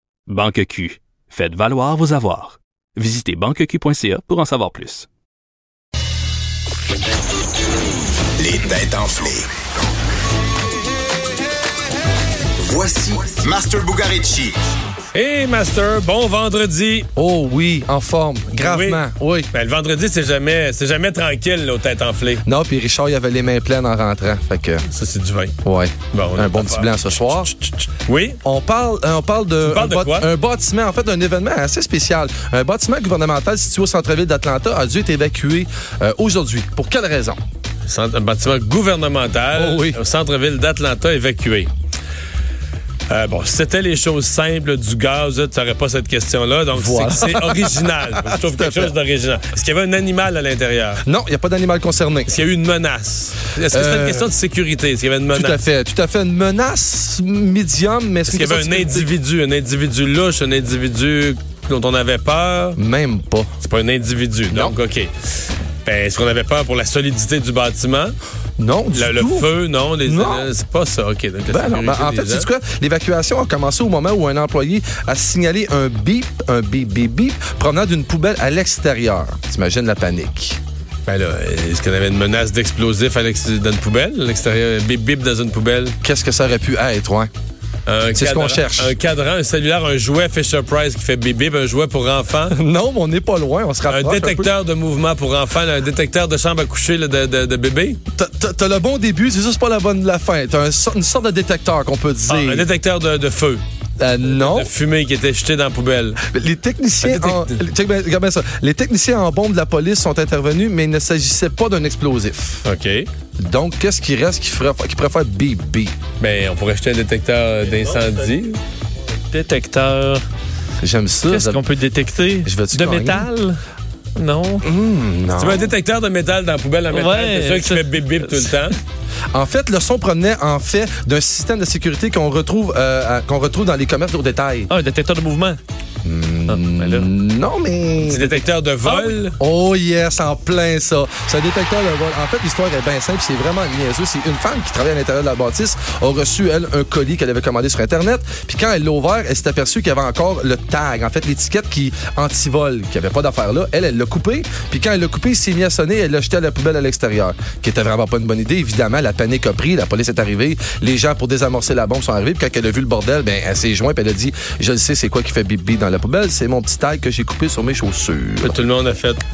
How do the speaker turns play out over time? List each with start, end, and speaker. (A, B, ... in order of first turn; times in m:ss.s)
0:00.3-0:05.1 A
0:08.4-0:09.5 B
0:12.6-0:14.6 B
0:15.1-0:17.1 C
0:17.2-0:19.5 D
0:18.6-0:22.4 C
0:22.4-0:24.8 D
0:24.9-0:25.5 C
0:25.6-0:27.5 D
0:26.1-0:28.4 C
0:28.4-0:37.4 D
0:29.6-0:30.3 C
0:37.8-0:41.7 C
0:39.6-0:40.0 D
0:43.1-0:51.0 C
0:46.7-0:48.9 D
0:51.0-0:52.3 D
0:52.3-0:55.6 C
0:53.7-0:54.3 D
0:55.3-0:59.1 D
0:58.3-1:02.8 C
1:02.8-1:03.5 D
1:03.6-1:05.1 C
1:04.5-1:04.8 D
1:05.8-1:08.2 C
1:08.6-1:09.5 D
1:08.9-1:12.5 C
1:10.0-1:10.5 D
1:11.5-1:20.6 D
1:21.1-1:26.0 C
1:26.0-1:27.3 D
1:27.8-1:32.6 C
1:28.2-1:28.9 D
1:32.5-1:34.5 D
1:33.9-1:38.0 C
1:38.1-1:42.7 D
1:42.3-1:43.6 C
1:44.0-1:44.7 D
1:44.2-1:46.2 C
1:46.2-1:52.6 D
1:47.0-1:47.6 C
1:52.6-1:53.1 C
1:53.4-1:55.9 D
1:56.2-1:58.6 C
1:59.3-2:00.2 E
2:00.8-2:01.6 D
2:01.2-2:03.6 E
2:02.4-2:03.3 D
2:04.2-2:04.6 E
2:04.6-2:05.7 D
2:05.4-2:08.8 C
2:06.9-2:08.7 E
2:09.3-2:14.7 D
2:14.7-2:15.6 E
2:16.0-2:18.4 D
2:16.5-2:17.1 E
2:18.0-2:19.4 C
2:18.8-2:19.1 E
2:19.4-2:48.5 D
2:48.4-2:49.2 C